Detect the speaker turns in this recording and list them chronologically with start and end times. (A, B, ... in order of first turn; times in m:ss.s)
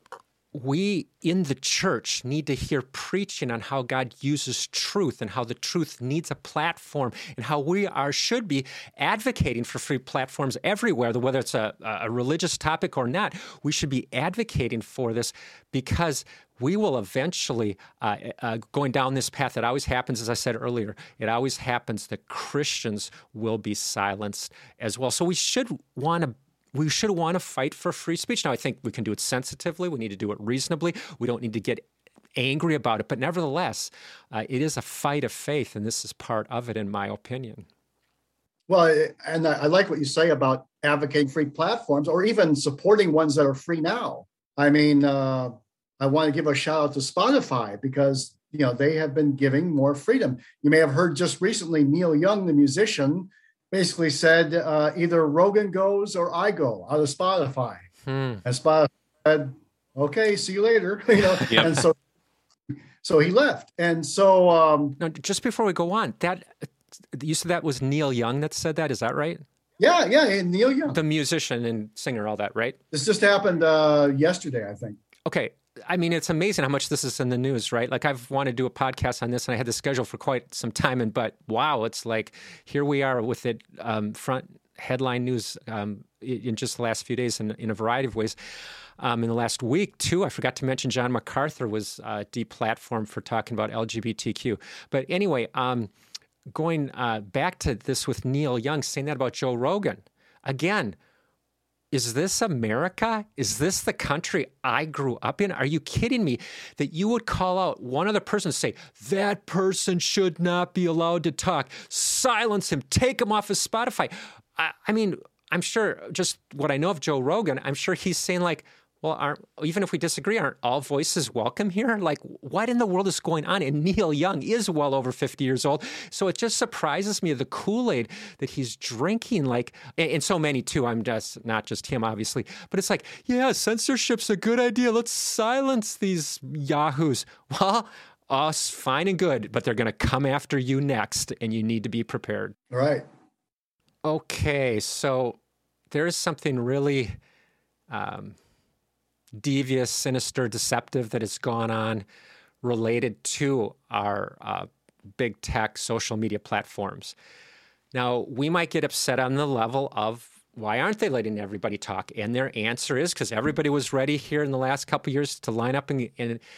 0:00.5-0:31.8 A
0:32.4-0:37.7 A
0:38.7-0:57.9 B
0:58.1-0:58.4 A
0:58.4-1:02.0 B
1:03.0-1:05.0 B
1:05.0-1:06.5 A
1:07.1-1:09.4 A
1:09.8-1:11.0 B
1:10.9-1:12.8 A
1:12.9-1:15.0 B
1:15.3-1:28.4 A
1:29.0-1:35.9 A
1:36.5-1:41.0 A
1:41.9-2:22.6 A
2:22.7-2:23.1 B
2:24.0-2:25.4 A
2:25.9-2:27.2 A
2:27.9-2:28.4 A
2:29.4-2:32.0 A
2:32.6-2:37.2 A
2:37.9-2:46.4 A